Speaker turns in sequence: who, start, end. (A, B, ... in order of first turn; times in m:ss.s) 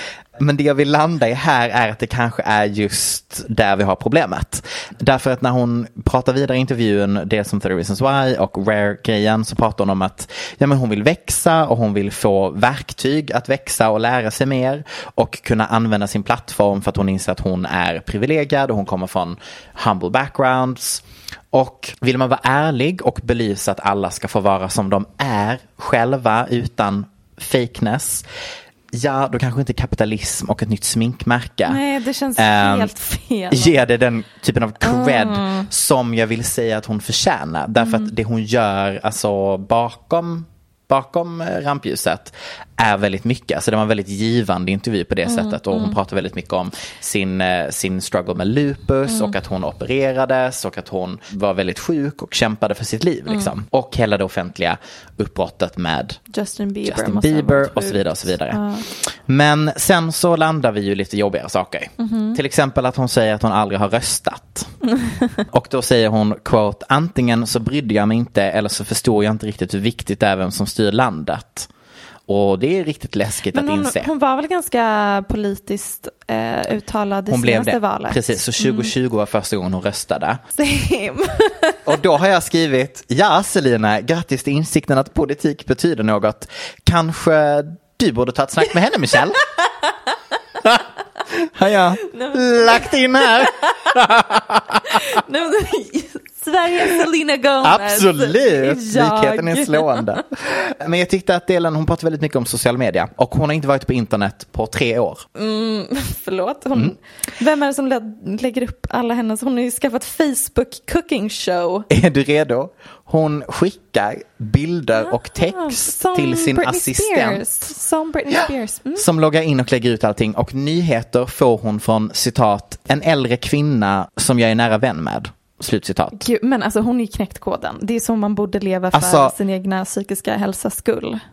0:00.4-0:28.2 A
0:28.9-0:31.8 A
0:31.7-0:33.8 B
0:32.4-0:32.9 A
0:33.5-0:56.2 A
0:34.8-0:35.7 B
0:37.8-0:38.1 B
0:45.3-0:46.0 B
0:49.1-0:49.3 B
0:56.3-0:58.8 B
0:56.8-1:04.7 A
1:02.0-1:02.4 B
1:04.9-1:05.4 B
1:05.5-1:11.7 A
1:12.3-1:14.1 A
1:13.5-1:18.9 B
1:17.3-1:20.4 A
1:20.6-1:21.8 B
1:21.8-1:29.4 A
1:30.6-1:34.8 A
1:32.1-1:33.7 B
1:34.8-1:40.2 B
1:37.6-1:45.2 A
1:45.4-1:51.9 B
1:51.9-1:57.4 A
1:55.0-1:59.1 B
1:59.0-2:06.2 A
2:06.2-2:11.2 B
2:08.9-2:09.3 A